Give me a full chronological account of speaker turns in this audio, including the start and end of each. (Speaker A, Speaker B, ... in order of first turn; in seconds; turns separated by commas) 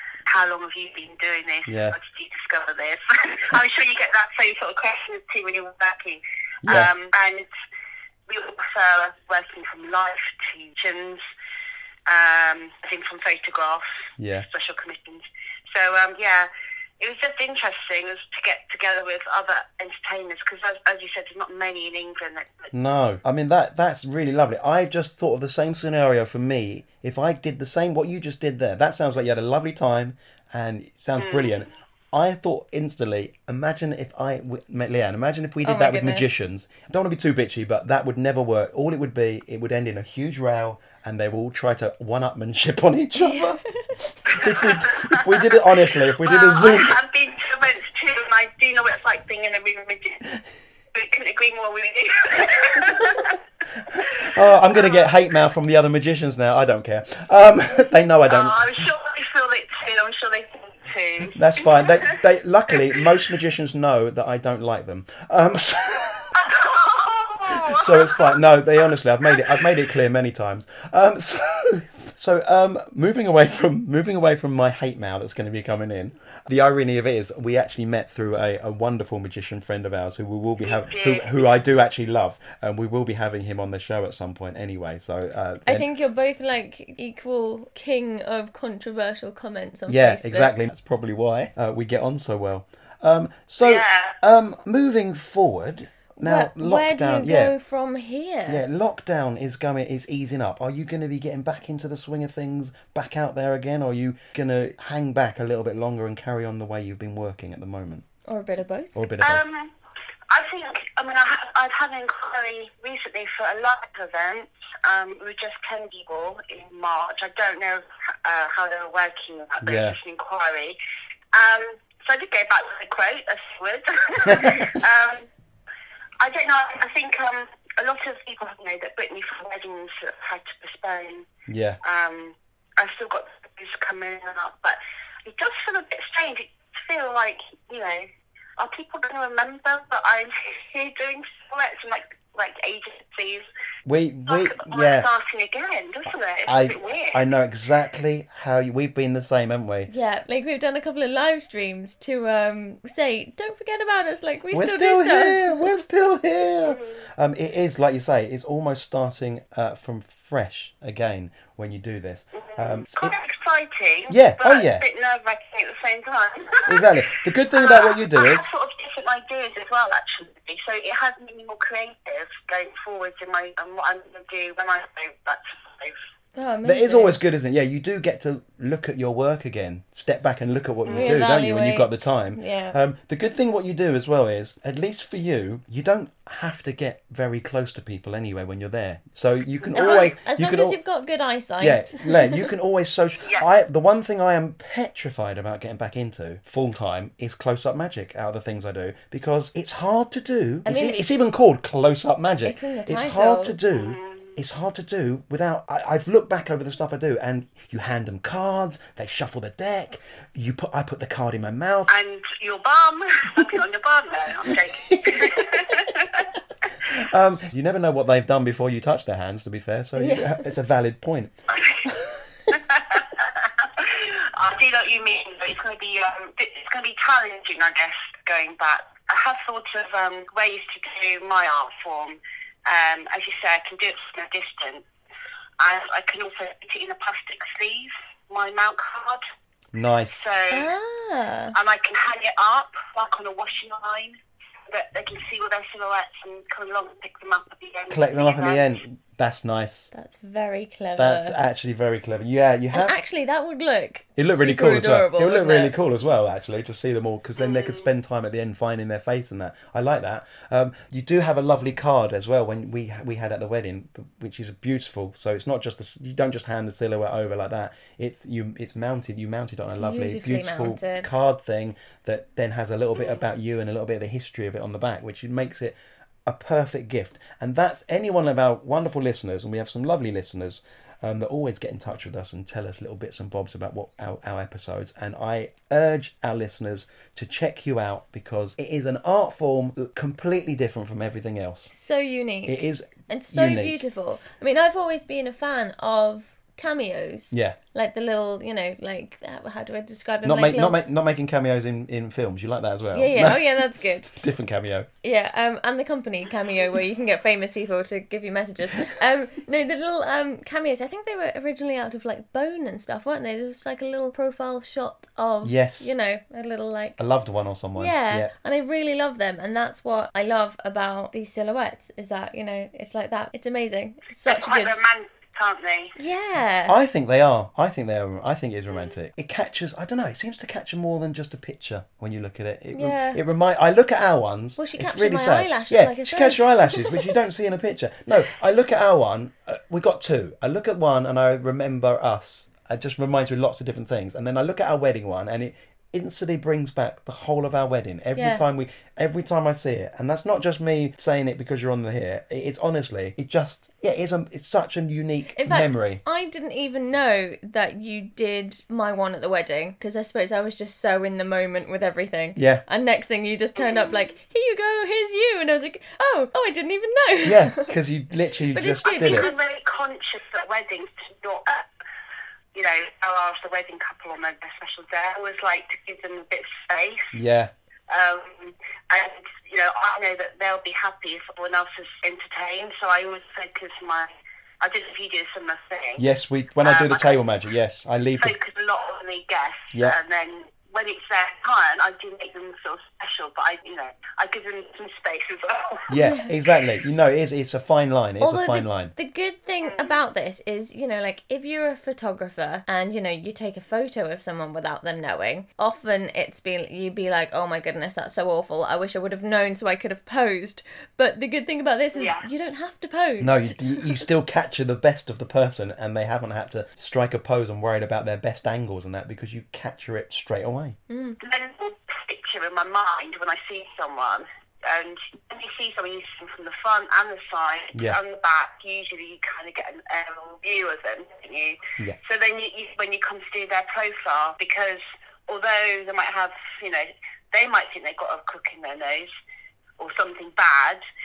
Speaker A: 0.3-7.5, Speaker B: 1.7-2.0, Speaker B: 6.6-6.9, Speaker A: 8.3-11.2, Speaker A: 12.1-16.5, Speaker B: 14.2-14.4, Speaker A: 17.0-22.7, Speaker B: 22.7-43.6, Speaker A: 31.2-31.7, Speaker C: 35.6-36.3, Speaker C: 43.2-43.5, Speaker B: 44.2-47.0, Speaker A: 44.3-45.6, Speaker A: 46.2-50.2, Speaker A: 50.9-53.4, Speaker B: 53.9-58.9, Speaker A: 54.0-55.1, Speaker A: 58.3-62.2, Speaker B: 61.4-66.5, Speaker A: 66.3-68.4, Speaker B: 67.5-85.9, Speaker A: 69.3-69.7, Speaker A: 80.6-81.5, Speaker C: 85.7-90.5, Speaker B: 89.9-97.5, Speaker A: 93.6-94.2, Speaker C: 96.2-98.6, Speaker B: 98.5-108.0, Speaker C: 108.3-108.9, Speaker B: 109.0-109.4, Speaker A: 109.2-109.7, Speaker A: 110.3-120.8, Speaker B: 119.6-120.0, Speaker A: 121.3-125.3, Speaker B: 124.3-124.7, Speaker A: 126.2-131.3, Speaker B: 131.5-131.8, Speaker A: 131.8-143.5, Speaker B: 143.9-145.1, Speaker A: 144.3-147.2, Speaker B: 146.5-149.9, Speaker C: 149.9-155.8, Speaker B: 154.5-163.2, Speaker A: 156.6-157.0, Speaker A: 162.4-176.0, Speaker B: 164.1-164.8, Speaker B: 166.7-168.5, Speaker C: 176.3-177.2, Speaker B: 176.6-190.8, Speaker A: 180.9-181.2, Speaker C: 180.9-182.8, Speaker A: 189.7-190.1, Speaker C: 189.8-192.5, Speaker B: 191.6-211.9, Speaker C: 200.7-201.0, Speaker C: 202.4-203.6, Speaker A: 203.7-204.4, Speaker A: 211.9-216.3, Speaker B: 214.5-215.8, Speaker B: 216.9-222.6, Speaker C: 220.0-220.5, Speaker A: 221.5-221.9, Speaker A: 222.5-234.8, Speaker A: 235.6-239.2, Speaker B: 239.7-240.3, Speaker A: 240.1-240.7, Speaker C: 240.5-241.6, Speaker A: 241.5-244.2, Speaker A: 244.7-248.6, Speaker B: 247.9-249.9, Speaker C: 249.9-251.4, Speaker B: 251.0-253.0, Speaker C: 252.7-255.7, Speaker B: 254.2-275.8, Speaker A: 257.4-257.9, Speaker C: 269.8-271.2, Speaker A: 273.0-273.2, Speaker B: 276.3-291.7, Speaker C: 291.7-300.8, Speaker B: 292.5-293.8, Speaker B: 297.3-297.6, Speaker B: 300.2-304.9, Speaker C: 302.9-304.1, Speaker C: 305.0-317.0, Speaker B: 315.4-315.9, Speaker B: 317.0-318.3, Speaker C: 317.8-324.8, Speaker A: 324.3-326.0, Speaker C: 326.0-326.8, Speaker B: 326.7-356.0, Speaker C: 332.7-333.2, Speaker C: 334.6-337.1, Speaker C: 348.2-348.4, Speaker C: 355.4-367.7, Speaker B: 362.4-362.6, Speaker A: 363.6-364.1, Speaker B: 367.2-369.3, Speaker C: 368.5-369.4, Speaker A: 368.9-371.7, Speaker A: 372.5-377.1, Speaker B: 377.1-377.5, Speaker A: 377.9-384.1, Speaker A: 384.6-386.1, Speaker B: 386.0-388.4, Speaker A: 386.6-387.2, Speaker A: 388.2-395.9, Speaker B: 395.9-398.9, Speaker C: 396.0-396.3, Speaker C: 398.2-414.1, Speaker A: 399.6-400.0, Speaker A: 411.9-412.3, Speaker B: 413.2-420.8, Speaker C: 420.9-421.2, Speaker A: 421.2-439.1, Speaker B: 427.7-428.0, Speaker A: 439.8-440.8